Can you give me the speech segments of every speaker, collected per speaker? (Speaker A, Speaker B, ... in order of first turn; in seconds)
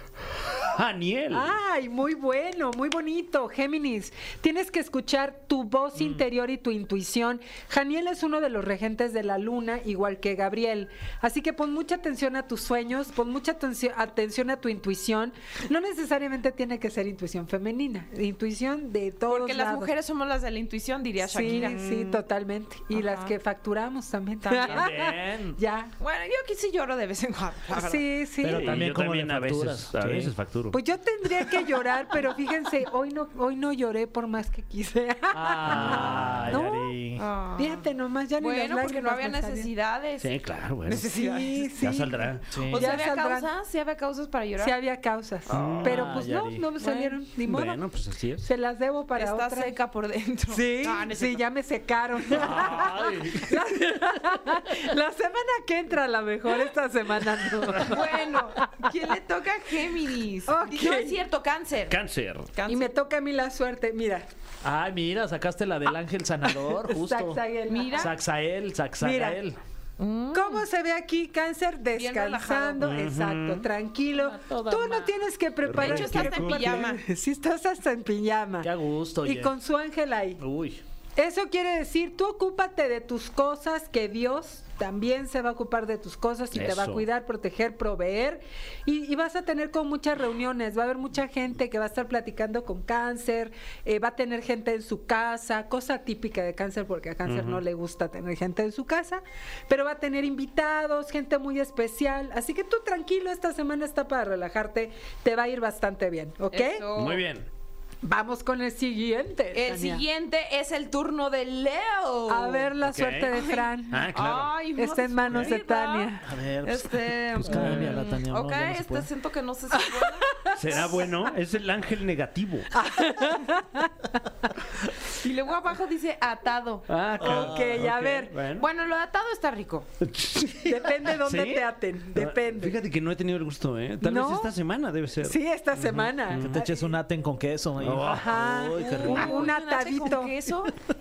Speaker A: 0.5-1.6, 28.5-30.8, 35.7-36.6, 40.2-41.1, 41.8-42.5, 45.5-46.1, 47.4-48.5, 52.3-53.6, 61.9-62.5, 72.8-73.7, 75.8-76.5, 86.5-87.1, 97.2-97.6, 106.9-107.5, 112.8-113.3, 113.9-114.6, 117.5-118.0, 120.5-122.7, 126.9-128.7, 130.0-136.6, 137.8-138.5
Speaker B: 1.3-19.9, 21.2-25.9, 27.7-28.8, 30.7-36.9, 37.6-39.7, 41.0-43.5, 44.6-47.8, 48.4-49.7, 50.5-58.9, 60.5-61.2, 62.7-64.3, 66.5-68.1, 69.0-69.4, 70.3-78.7, 79.2-80.4, 81.2-106.8, 108.0-110.0, 112.3-114.1, 114.8-116.3, 119.8-120.9, 122.7-124.5, 127.2-128.4, 130.4-132.8, 134.0-134.5, 135.2-136.9, 138.0-140.3
Speaker C: 19.3-21.8, 22.9-23.3, 24.4-24.9, 26.0-28.1, 37.2-41.9, 42.7-44.8, 46.8-47.2, 49.1-51.4, 57.8-62.0, 62.6-62.9, 67.7-68.1, 70.0-70.7, 71.9-72.9, 75.7-77.0, 106.5-107.2, 109.5-112.7, 113.4-116.1, 116.6-120.5, 125.2-126.9, 128.6-129.9, 138.8-140.7
Speaker D: 24.7-25.6, 28.4-30.3, 35.3-37.2, 42.5-42.9, 45.7-46.7, 64.6-67.4, 68.0-69.6, 74.1-75.1, 75.8-76.8, 78.6-79.6, 80.4-80.8, 116.2-119.1, 127.2-127.7, 136.4-139.5